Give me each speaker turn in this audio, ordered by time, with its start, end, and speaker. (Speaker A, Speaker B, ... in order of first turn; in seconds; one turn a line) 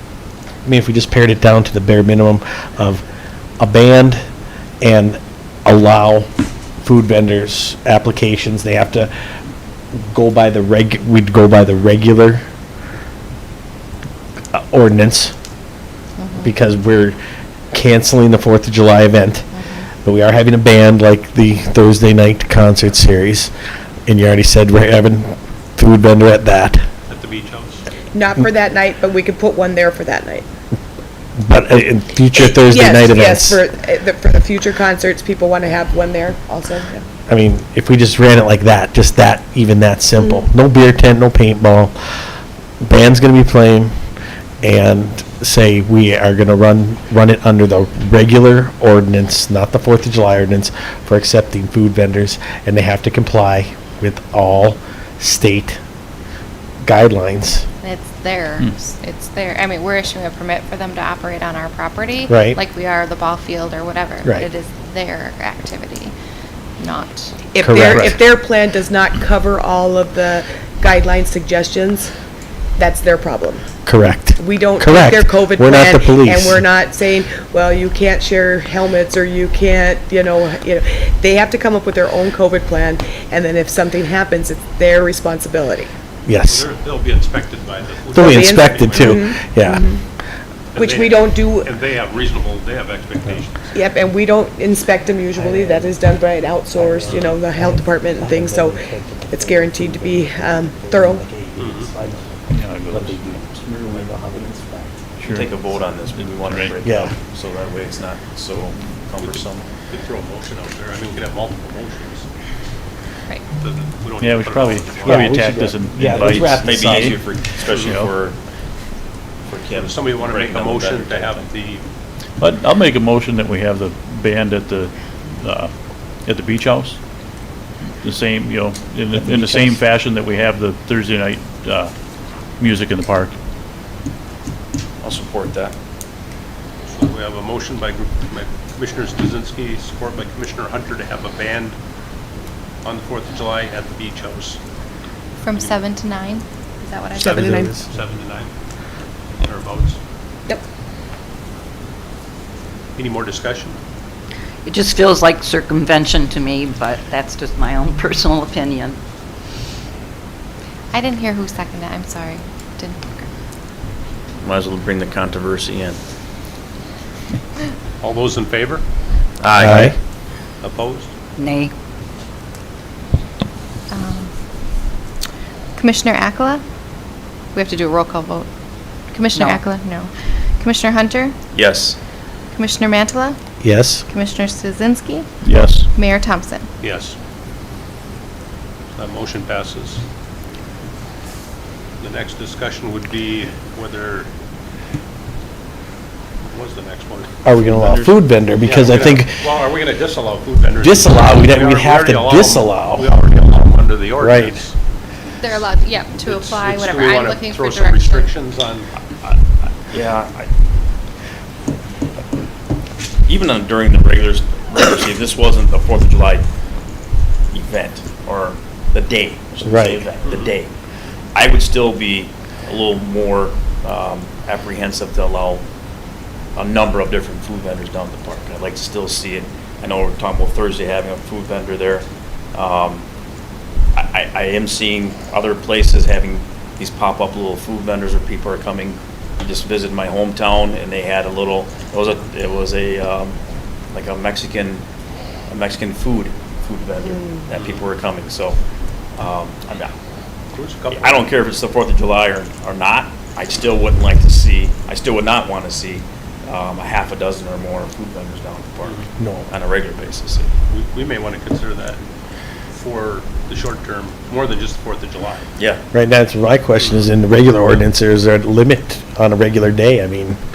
Speaker A: 0.6-3.0
Speaker A: 3.6-4.2
Speaker A: 4.8-6.3
Speaker A: 6.8-9.1
Speaker A: 9.9-12.4
Speaker A: 14.5-15.3
Speaker B: 16.2-16.6
Speaker A: 16.4-17.2
Speaker A: 17.7-19.5
Speaker B: 19.5-19.9
Speaker A: 20.0-23.5
Speaker A: 24.1-26.9
Speaker C: 27.1-27.8
Speaker D: 28.1-30.4
Speaker A: 31.4-33.6
Speaker D: 32.3-37.0
Speaker A: 37.3-41.9
Speaker A: 42.8-43.9
Speaker A: 44.6-55.8
Speaker A: 56.8-57.6
Speaker B: 57.8-66.1
Speaker A: 62.3-62.6
Speaker B: 66.8-67.4
Speaker D: 67.5-72.1
Speaker A: 67.6-68.2
Speaker E: 67.9-68.2
Speaker D: 72.8-73.6
Speaker A: 73.8-76.6
Speaker D: 74.4-85.9
Speaker A: 86.2-86.7
Speaker C: 86.4-89.1
Speaker A: 88.1-89.9
Speaker D: 88.2-90.0
Speaker C: 90.7-93.7
Speaker D: 90.8-91.7
Speaker D: 93.7-101.2
Speaker A: 95.3-105.0
Speaker C: 97.1-97.4
Speaker C: 101.6-101.9
Speaker E: 102.5-103.9
Speaker E: 105.2-107.1
Speaker F: 105.3-109.7
Speaker A: 106.8-107.1
Speaker C: 109.2-112.3
Speaker C: 113.5-115.4
Speaker E: 114.2-117.2
Speaker A: 115.0-117.2
Speaker F: 116.4-118.4
Speaker E: 117.8-118.1
Speaker F: 119.4-121.5
Speaker C: 119.7-121.8
Speaker E: 122.4-125.7
Speaker E: 126.2-127.0
Speaker E: 128.0-131.9
Speaker A: 129.1-129.8
Speaker E: 132.6-133.3
Speaker F: 135.0-135.7
Speaker C: 136.9-141.8
Speaker C: 142.8-144.6
Speaker B: 145.4-147.7
Speaker D: 147.1-147.7
Speaker A: 147.2-147.9
Speaker C: 147.9-148.5
Speaker C: 149.4-150.0
Speaker C: 153.0-153.8
Speaker G: 154.6-159.0
Speaker B: 160.9-163.3
Speaker F: 164.4-166.0
Speaker C: 168.0-168.8
Speaker F: 169.4-169.9
Speaker A: 169.6-170.0
Speaker C: 170.6-171.1
Speaker G: 171.4-171.7
Speaker B: 173.9-174.3
Speaker B: 175.8-176.6
Speaker B: 177.5-178.5
Speaker B: 179.1-181.3
Speaker G: 179.3-179.6
Speaker F: 181.5-182.0
Speaker B: 182.5-183.4
Speaker A: 183.6-184.0
Speaker B: 184.1-185.3
Speaker E: 185.4-185.9
Speaker B: 185.8-186.7
Speaker C: 186.8-187.2
Speaker C: 189.0-190.0
Speaker C: 192.0-194.3
Speaker C: 196.5-197.3
Speaker A: 197.4-199.4
Speaker C: 198.6-204.7
Speaker A: 200.8-203.1
Speaker A: 204.2-204.6
Speaker B: 205.4-208.3
Speaker C: 206.2-208.9
Speaker F: 209.2-210.5
Speaker F: 213.2-216.4
Speaker F: 217.5-220.7
Speaker A: 219.6-220.1
Speaker F: 221.3-225.6
Speaker F: 226.6-233.0
Speaker F: 233.9-243.4
Speaker F: 243.9-244.8
Speaker F: 245.5-248.6
Speaker F: 249.2-249.9
Speaker C: 250.5-251.3
Speaker F: 250.9-260.5
Speaker A: 259.2-259.5
Speaker C: 260.7-262.0
Speaker C: 262.7-265.5
Speaker F: 265.6-265.8
Speaker A: 265.9-270.4
Speaker C: 266.8-267.1